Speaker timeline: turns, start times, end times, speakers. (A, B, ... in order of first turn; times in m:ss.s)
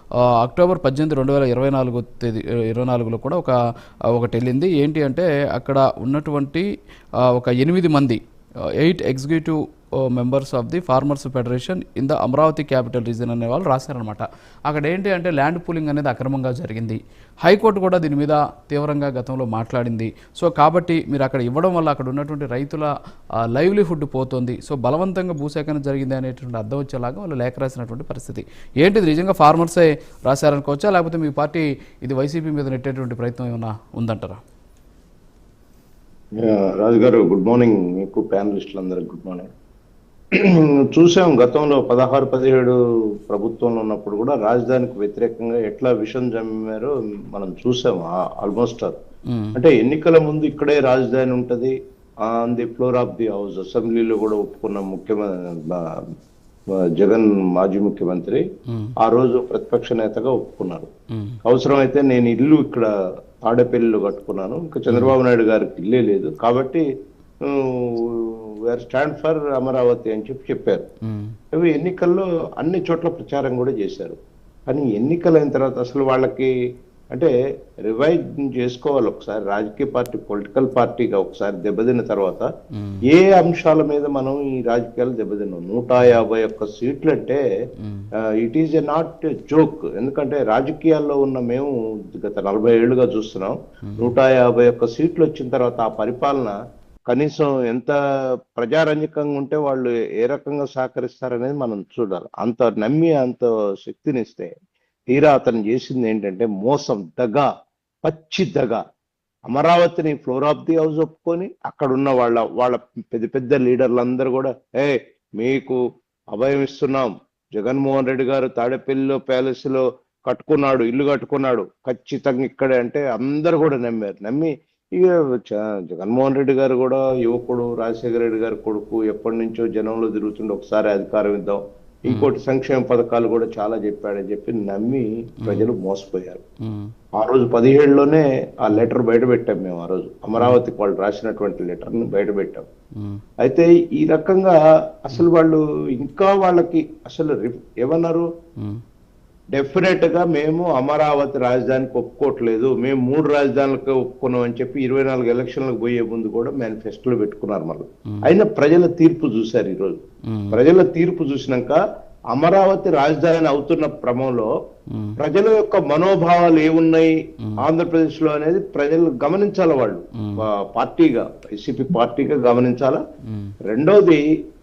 0:00.2-0:03.6 A
0:04.1-0:06.7 A
0:07.2-0:08.2 A
0:08.8-0:34.4 A
0:36.4-0:39.5 B
0:40.3-0:42.8 B
0:43.3-0:49.0 B
0:49.3-0:49.6 A
0:49.5-0:55.8 B
0:57.0-0:58.4 B
0:58.7-0:58.9 A
0:59.0-1:00.9 B
1:01.4-1:02.9 B
1:03.4-1:06.8 B
1:07.4-1:10.8 B
1:11.0-1:11.3 A
1:11.5-1:14.2 B
1:14.7-1:16.5 B
1:17.9-1:22.4 B
1:22.8-1:23.0 A
1:23.1-1:27.4 B
1:27.8-1:28.1 A
1:28.4-1:36.6 B
1:33.9-1:34.1 A
1:37.1-1:38.0 B
1:38.6-1:44.5 B
1:45.1-1:47.5 B
1:48.0-1:48.8 B
1:49.5-1:55.8 B
1:56.3-2:16.4 B
2:16.6-2:16.9 A
2:17.2-2:22.6 B
2:23.4-2:28.2 B
2:29.5-2:40.0 B
2:40.3-2:40.6 A
2:40.5-2:41.8 B
2:42.3-2:44.5 B
2:44.9-2:45.2 A
2:45.2-2:53.0 B
2:53.3-2:53.5 A
2:53.7-2:54.2 B